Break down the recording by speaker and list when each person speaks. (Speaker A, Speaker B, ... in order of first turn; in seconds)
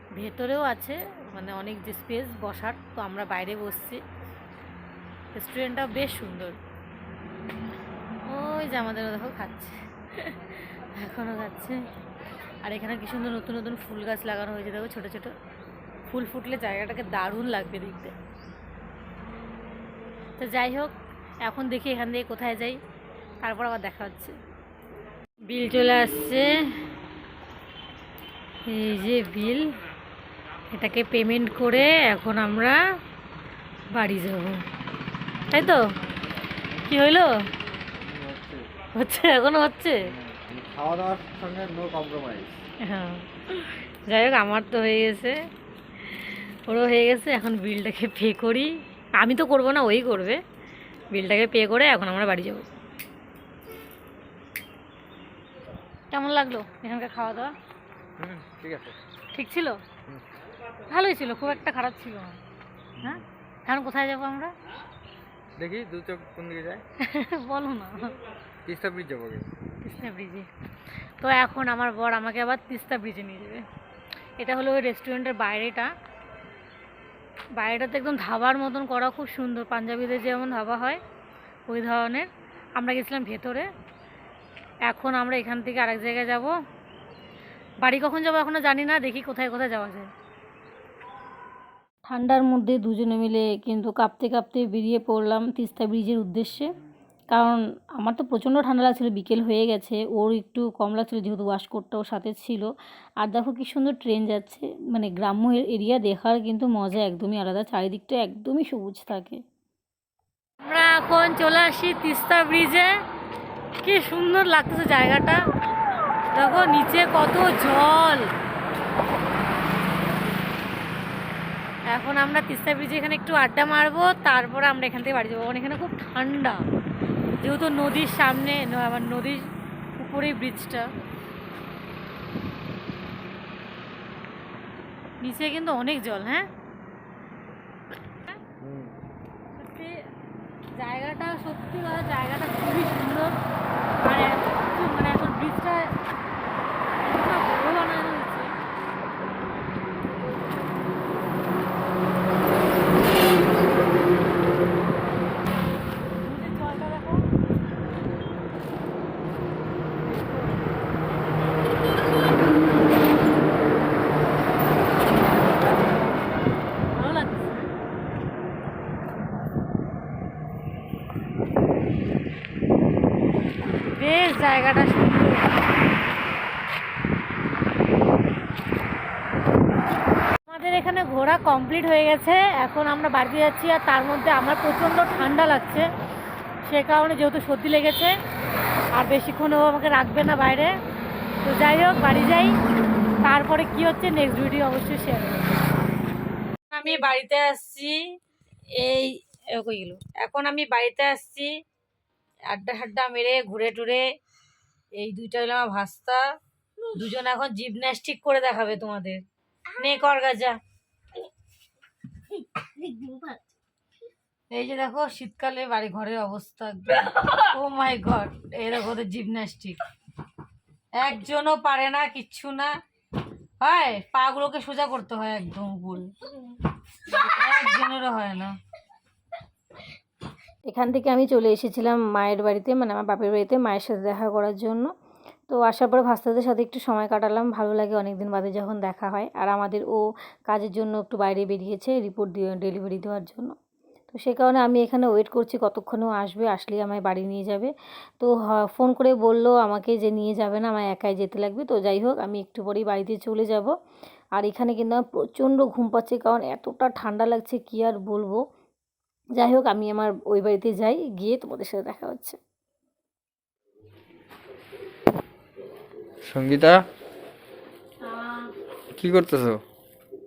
Speaker A: 0.1-4.0, 5.3-6.5, 8.2-9.8, 10.7-11.8, 12.6-15.3, 16.1-18.1, 20.4-20.9, 21.4-22.8, 23.4-24.3, 25.5-26.6, 28.7-29.7, 30.7-32.8, 33.9-34.6, 35.5-35.8, 36.8-37.3, 38.9-40.1, 42.9-45.4, 46.7-50.4, 51.1-52.6, 56.1-57.5, 59.3-59.8, 60.9-62.4, 63.0-64.5, 67.0-68.1, 69.8-70.5, 71.2-73.6, 74.4-75.9, 77.6-81.0, 81.7-83.7, 84.9-86.5, 87.8-90.1, 92.0-96.7, 97.3-102.7, 103.2-109.4, 110.6-112.9, 113.8-115.4, 116.3-118.2, 121.9-126.6, 127.4-130.9, 135.2-136.5, 139.6-140.0, 140.7-143.4, 144.0-145.9, 147.0-148.5, 156.2-157.3, 160.1-160.6, 166.9-167.7, 173.7-175.6, 180.5-185.9, 186.6-188.1, 188.9-190.7, 191.4-192.6, 193.2-195.7, 196.7-198.0, 198.8-201.5, 202.5-204.0, 205.0-206.2, 206.9-209.2, 209.8-210.6, 212.8-213.4, 214.5-219.8, 220.9-222.7, 223.6-226.2, 227.1-228.6, 230.6-234.9, 235.5-243.5, 244.1-253.7, 254.4-258.4, 259.4-262.4, 268.0-268.5
Speaker B: 38.0-38.6, 40.0-42.6, 58.2-59.0, 63.0-63.2, 65.6-66.8, 68.7-69.5, 138.6-139.0, 266.3-266.8, 268.9-269.6